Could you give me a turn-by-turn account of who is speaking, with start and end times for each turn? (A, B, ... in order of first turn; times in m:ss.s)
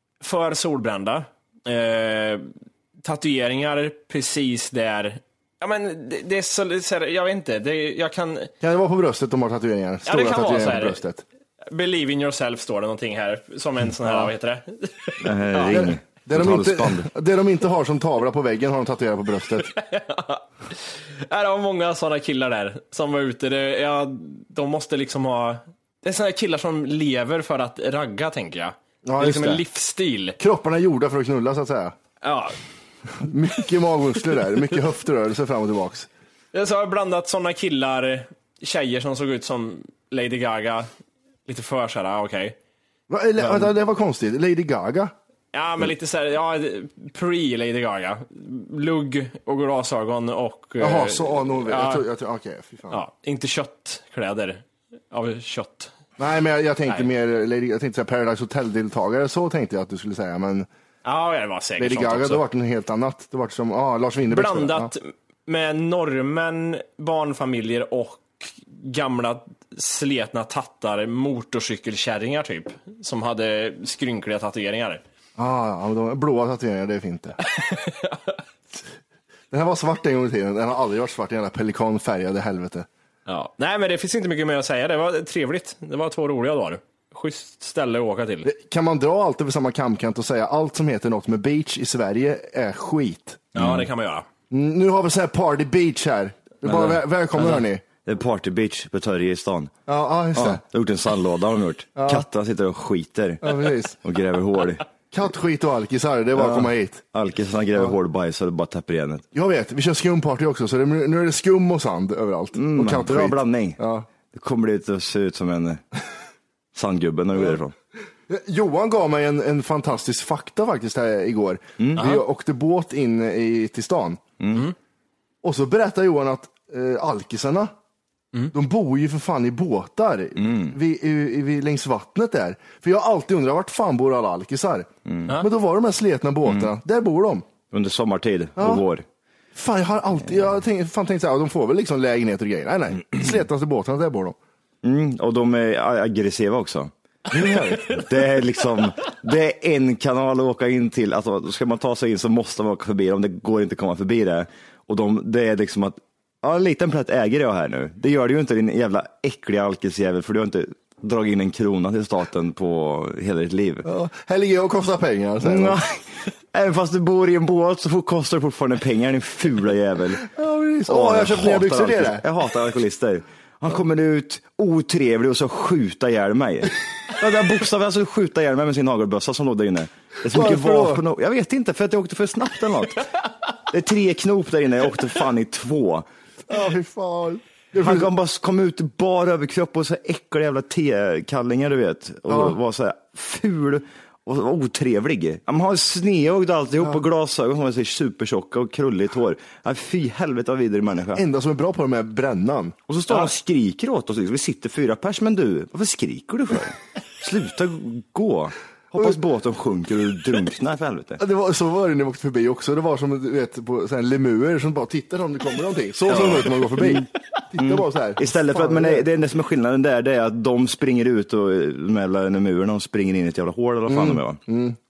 0:00.2-0:02.5 A
0:03.0-0:08.5 A
0:08.6-0:11.2 B
0:10.0-0:11.0 A
0:11.7-0:15.7 A
0:14.0-0:14.3 B
0:15.2-0:17.1 C
0:15.7-0:19.7 B
0:19.7-0:20.4 A
0:21.3-0:30.4 A
0:29.0-0:29.6 B
0:30.4-0:31.9 B
0:32.2-0:32.6 A
0:33.2-0:36.1 B
0:36.5-0:40.9 A
0:41.5-0:42.6 A
0:43.1-0:45.1 B
0:43.4-0:43.7 A
0:45.5-0:52.0 A
0:50.8-0:53.0 B
0:52.9-0:55.9 A
0:56.2-1:00.7 B
1:01.0-1:02.4 A
1:01.8-1:04.9 B
1:04.3-1:15.0 A
1:15.4-1:17.4 B
1:17.6-1:18.4 A
1:19.5-1:22.9 B
1:23.3-1:28.5 A
1:28.4-1:33.4 B
1:33.5-1:33.9 C
1:33.5-1:34.2 A
1:34.5-1:37.8 B
1:36.6-1:39.7 C
1:39.9-1:40.6 B
1:40.3-1:44.8 C
1:42.0-1:42.2 B
1:43.4-1:44.0 B
1:45.1-1:47.0 B
1:46.3-1:49.2 C
1:49.3-1:54.1 B
1:52.5-1:53.8 C
1:54.3-1:55.8 C
1:56.7-1:57.7 C
1:58.3-2:04.2 B
2:01.8-2:02.0 C
2:02.0-2:02.2 A
2:04.4-2:04.7 C
2:05.4-2:07.7 B
2:08.5-2:17.4 B
2:10.4-2:10.8 C
2:15.1-2:15.3 C
2:16.4-2:16.7 C
2:17.7-2:19.0 C
2:18.6-2:18.8 B
2:19.5-2:24.4 B
2:24.8-2:26.9 C
2:27.3-2:28.0 B
2:27.8-2:43.9 C
2:43.8-2:45.8 B
2:45.4-2:50.3 C
2:50.3-2:52.2 B
2:50.9-3:03.0 C
3:00.3-3:01.0 B
3:03.7-3:06.0 C
3:06.5-3:08.1 B
3:07.8-3:21.2 C
3:12.3-3:12.6 B
3:21.1-3:22.8 B
3:22.9-3:31.2 C
3:31.2-3:39.0 B
3:36.1-3:44.4 C
3:43.9-3:44.8 B